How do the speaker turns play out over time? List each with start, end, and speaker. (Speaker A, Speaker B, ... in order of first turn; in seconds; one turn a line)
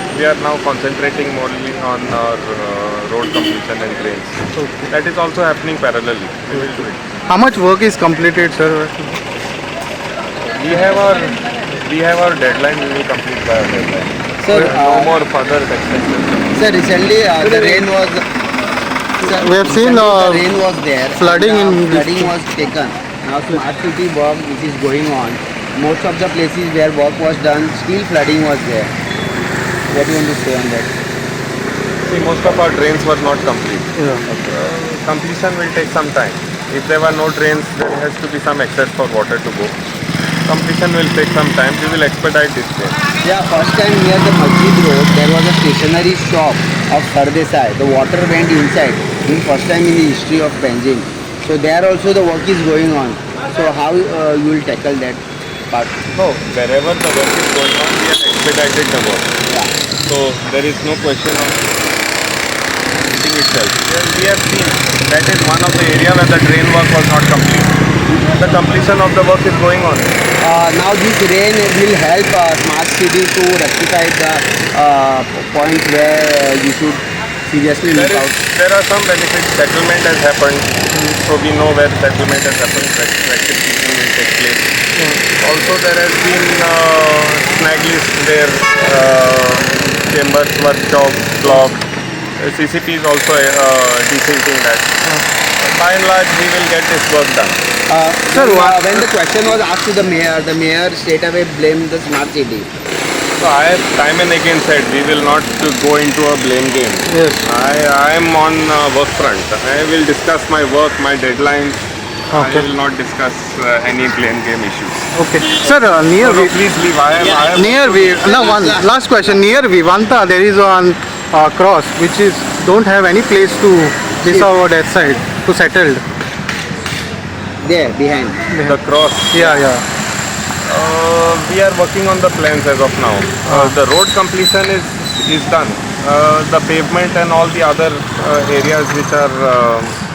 Speaker A: 0.1-7.0
Speaker B: 4.6-4.9
Speaker B: 7.3-9.2
Speaker A: 10.4-16.6
Speaker C: 14.4-15.1
Speaker C: 16.5-18.3
Speaker B: 17.5-17.8
Speaker C: 19.2-28.9
Speaker B: 19.2-20.5
Speaker B: 21.1-22.4
Speaker C: 29.9-30.9
Speaker A: 32.0-39.8
Speaker A: 40.5-43.0
Speaker C: 43.2-56.1
Speaker A: 56.1-59.4
Speaker A: 60.0-61.6
Speaker A: 63.0-70.2
Speaker C: 70.4-78.4
Speaker A: 77.9-84.7
Speaker A: 85.3-91.9
Speaker A: 92.4-95.0
Speaker A: 95.6-97.6
Speaker C: 97.9-102.7
Speaker B: 98.3-98.8
Speaker A: 98.4-99.1
Speaker A: 103.4-115.1
Speaker B: 107.1-107.4
Speaker B: 112.3-112.7
Speaker B: 115.2-116.5
Speaker A: 116.2-118.4
Speaker C: 117.2-117.5
Speaker B: 117.5-126.0
Speaker C: 118.2-119.3
Speaker C: 124.2-124.5
Speaker C: 127.6-128.4
Speaker B: 128.5-128.8
Speaker A: 128.6-129.6
Speaker B: 129.3-129.8
Speaker A: 130.7-140.0